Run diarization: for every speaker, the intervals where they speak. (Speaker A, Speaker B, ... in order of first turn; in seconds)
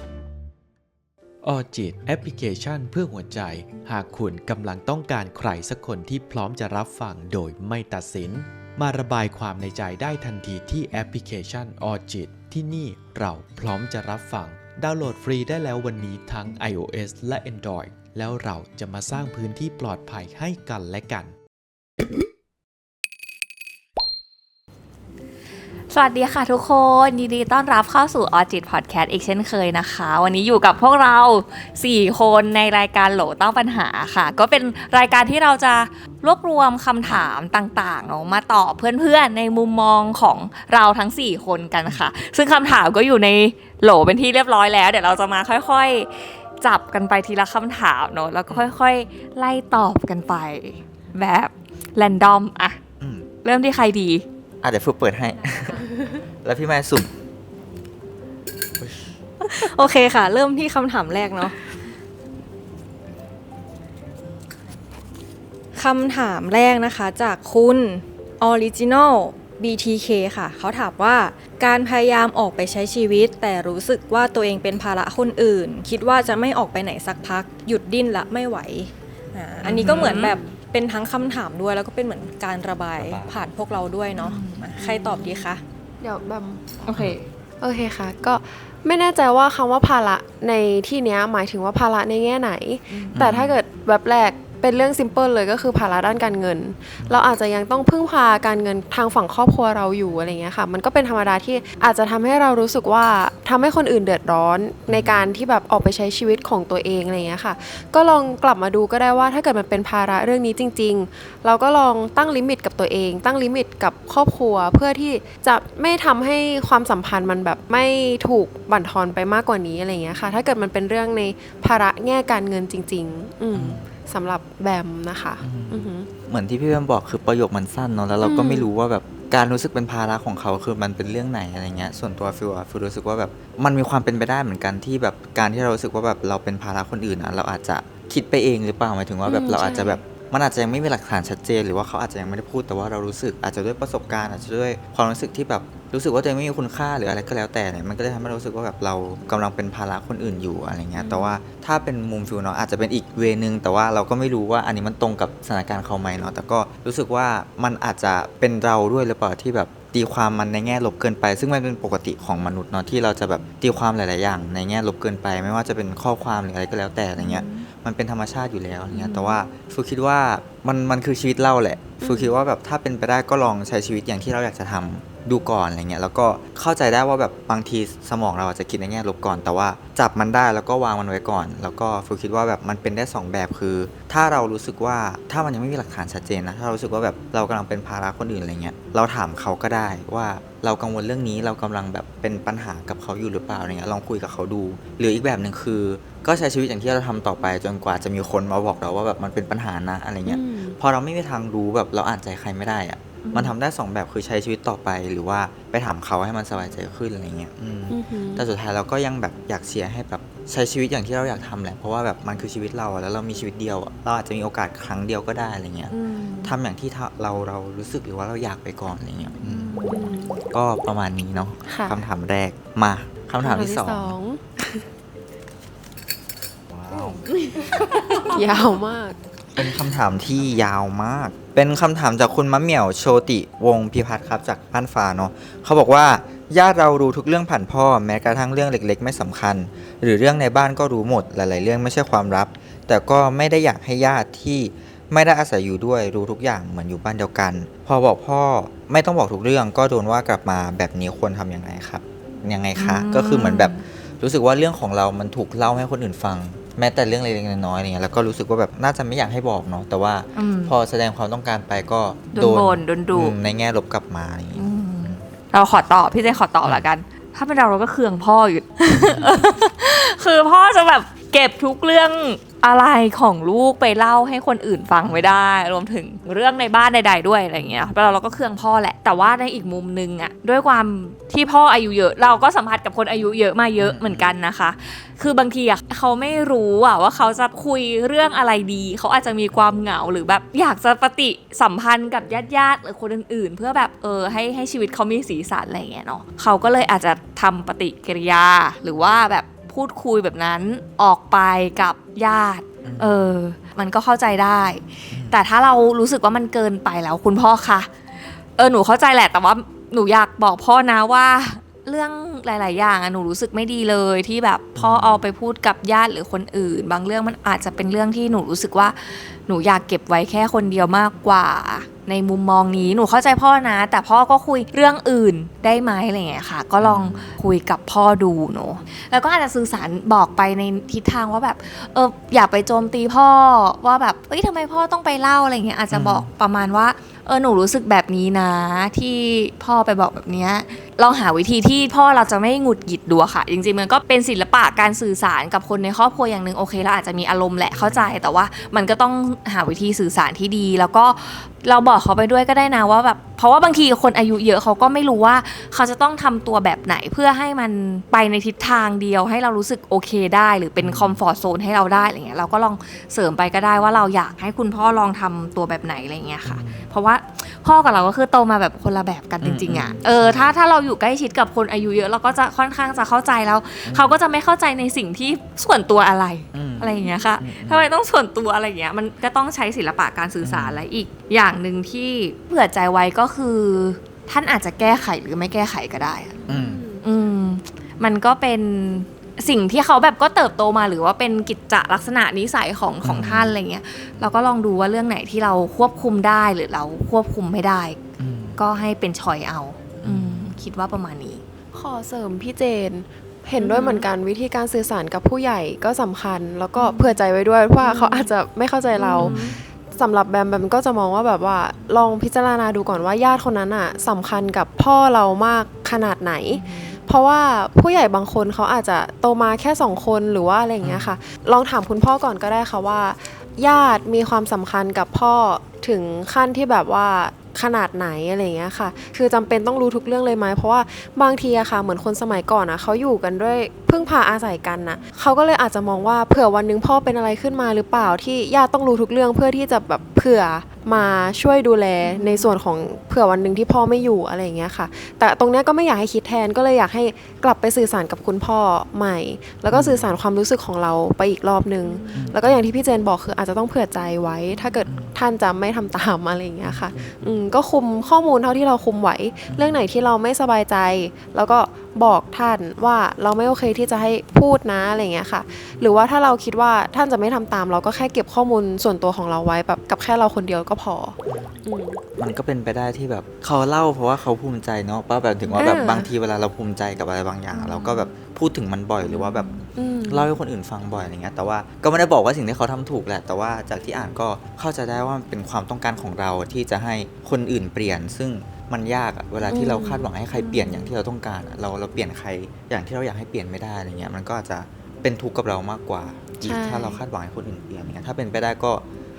Speaker A: 1.4-21.3
Speaker B: 25.9-52.8, 53.4-54.2, 79.8-80.3, 84.2-85.0, 86.8-87.2, 92.9-93.2, 151.0-151.3, 167.2-167.7, 168.9-169.4, 203.2-203.5, 215.9-216.5, 219.4-220.2, 227.3-228.3, 252.8-253.8, 260.4-260.7, 262.3-263.3, 264.5-307.9, 308.6-386.4, 387.0-398.0, 398.6-401.4, 403.6-404.1, 406.8-407.2, 407.8-408.3, 409.0-409.5, 416.5-417.0, 442.0-442.5, 451.8-452.1, 477.5-478.1, 479.1-479.6
Speaker C: 53.0-53.3, 54.6-55.9, 56.4-57.1, 79.6-80.2, 83.0-83.4, 86.9-87.2, 93.1-93.6, 104.9-105.3, 123.5-123.9, 125.4-215.9, 216.4-219.7, 220.5-224.2, 226.7-227.8, 229.6-265.2, 268.9-269.4, 275.0-275.3, 277.5-277.8, 283.8-284.3, 302.8-303.3, 305.1-305.4, 314.8-315.2, 326.8-327.3, 335.9-336.3, 347.7-348.2, 360.8-361.2, 366.4-366.8, 369.4-370.5, 373.8-374.2, 376.5-377.9, 380.4-380.8, 386.5-386.8, 393.0-393.5, 398.2-398.6, 400.0-400.5, 409.2-409.6, 420.8-421.1, 449.7-450.1, 452.1-452.6, 454.9-455.1, 456.6-457.3, 459.5-459.8, 471.3-471.6, 472.2-479.5, 480.1-498.8
Speaker D: 59.5-61.5, 65.7-85.6
Speaker E: 80.0-80.6, 86.0-86.7, 87.6-126.1, 128.2-128.7, 139.2-140.0, 172.0-172.3, 200.2-200.8, 207.9-208.4, 219.9-220.4, 221.7-222.0, 223.4-224.8, 228.2-229.2, 386.4-387.0, 401.7-472.0, 475.5-476.1, 479.8-480.3, 489.5-490.9, 496.4-497.0